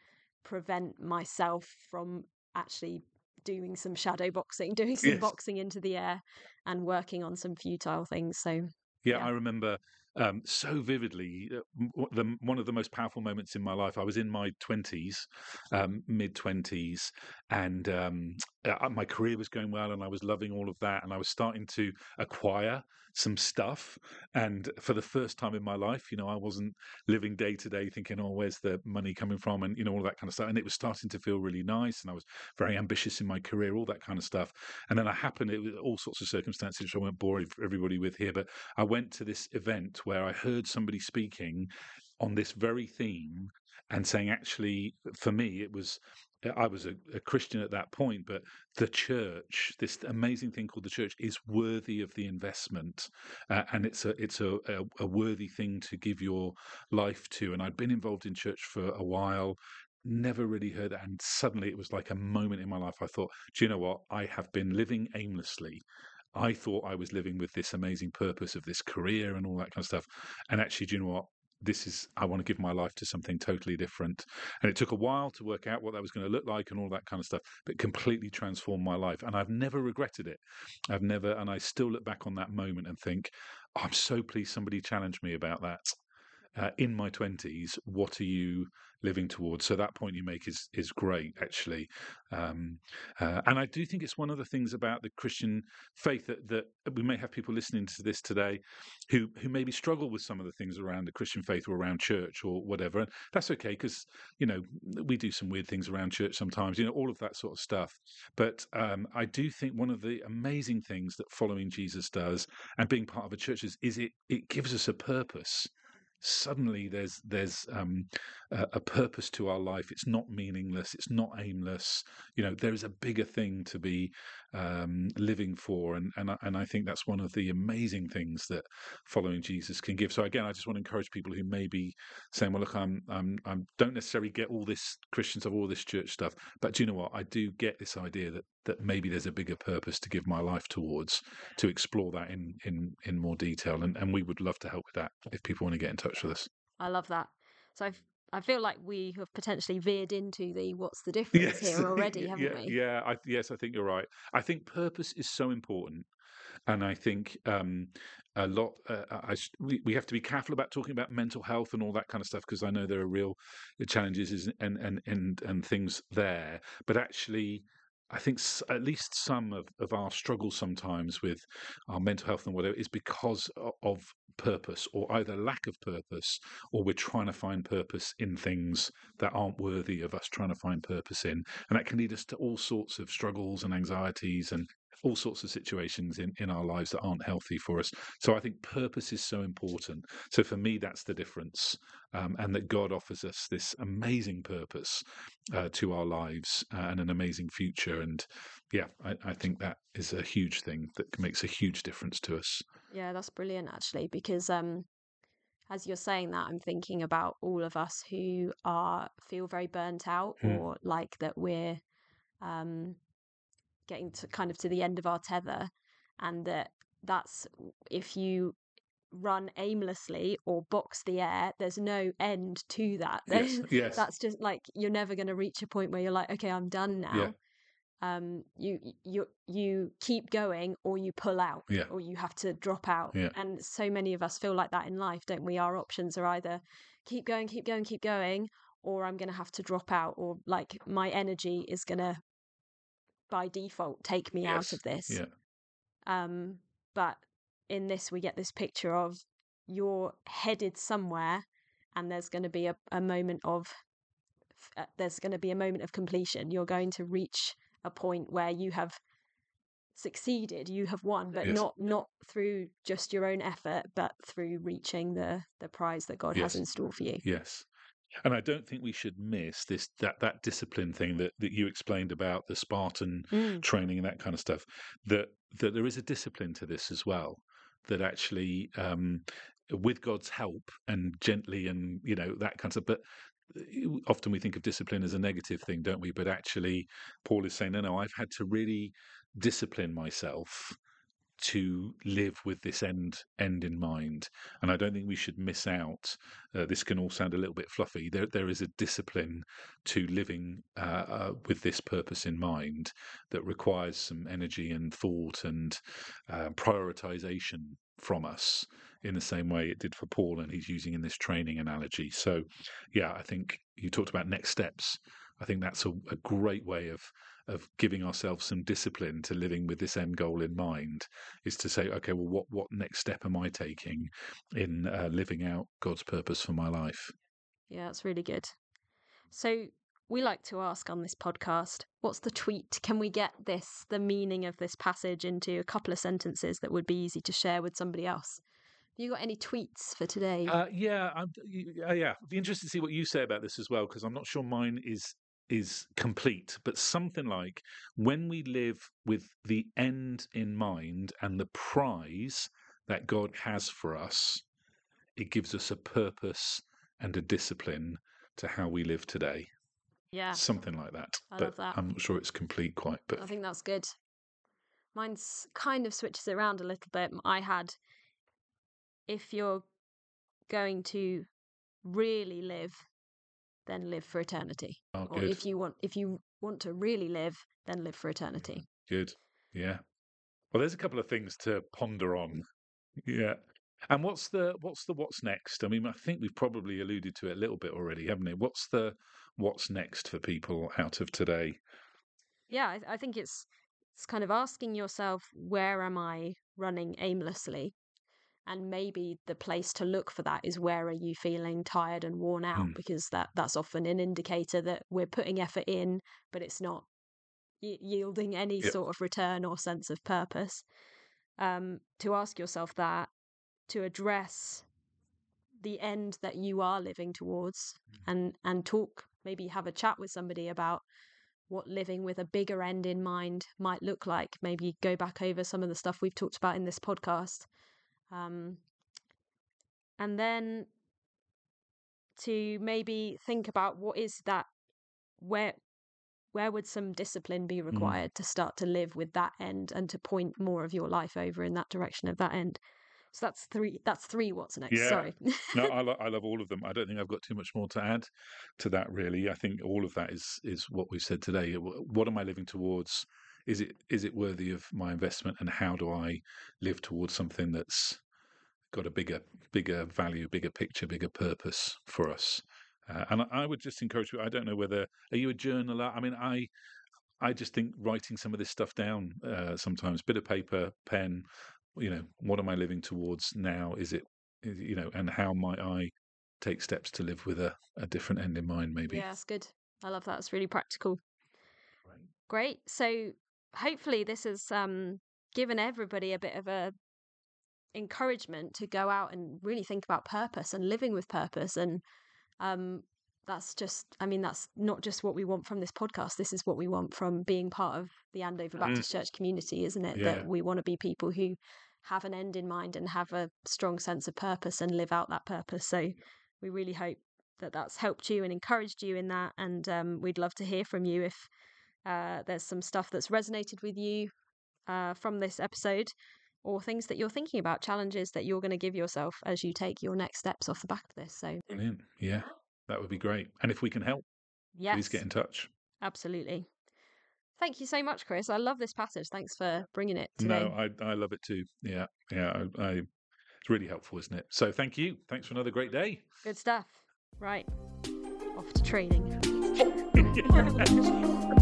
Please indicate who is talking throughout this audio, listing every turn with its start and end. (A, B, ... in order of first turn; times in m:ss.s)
0:00.4-0:09.3 A
0:05.0-0:05.3 B
0:09.0-1:26.0 B
1:26.5-1:55.7 B
1:56.2-2:26.5 B
2:26.8-2:32.7 A
2:31.3-2:36.1 B
2:36.7-3:22.6 B
3:22.9-3:24.9 A
3:25.7-3:31.8 A
3:32.4-3:33.0 A
3:33.9-3:38.6 A
3:39.1-3:47.3 A
3:43.3-3:44.0 B
3:48.0-4:02.2 A
4:03.3-4:05.2 A
4:04.4-4:05.3 B
4:06.0-4:11.4 A
4:12.0-4:13.7 A
4:14.6-4:19.0 A
4:19.9-4:27.2 A
4:26.3-4:26.6 B
4:27.2-4:27.7 B
4:28.2-4:50.8 B
4:33.3-4:33.6 A
4:51.4-5:27.1 B
5:27.7-5:28.5 A
5:29.3-5:38.4 A
5:39.0-5:40.6 A
5:40.4-5:54.4 B
5:55.2-5:59.5 B
6:00.1-6:00.4 A
6:00.3-6:03.3 B
6:01.3-6:01.8 A
6:03.2-6:03.9 A
6:04.9-6:07.7 A
6:09.1-6:09.6 A
6:10.5-6:11.3 A
6:11.8-6:12.8 A
6:13.6-6:18.7 A
6:14.9-6:15.4 B
6:18.6-6:19.8 B
6:20.5-6:22.4 B
6:23.0-6:31.6 B
6:32.5-6:37.7 A
6:38.5-6:46.9 A
6:47.6-6:50.6 A
6:51.4-6:53.1 A
6:53.7-6:54.7 A
6:55.6-7:00.8 A
7:01.5-7:07.5 A
7:08.1-7:08.6 A
7:10.0-7:10.7 A
7:12.2-7:14.4 A
7:15.2-7:15.6 A
7:16.3-7:22.6 A
7:17.7-7:18.0 B
7:23.1-7:25.7 A
7:24.7-7:38.0 B
7:38.7-7:46.5 B
7:47.2-7:59.0 B
7:58.9-8:01.0 A
8:02.3-8:06.7 A
8:07.7-8:11.8 A
8:12.4-8:31.3 A
8:18.6-8:18.8 B
8:19.9-8:20.2 B
8:31.8-8:34.1 A
8:34.7-8:35.9 A
8:36.4-8:41.4 A
8:41.5-8:44.0 B
8:44.6-8:45.0 A
8:44.7-8:45.5 B
8:45.8-8:46.5 A
8:47.4-8:50.5 A
8:50.2-8:52.9 B
8:53.4-8:56.1 B
8:56.2-8:57.5 A
8:58.3-8:59.3 A
8:59.9-9:00.9 B
9:00.0-9:00.8 A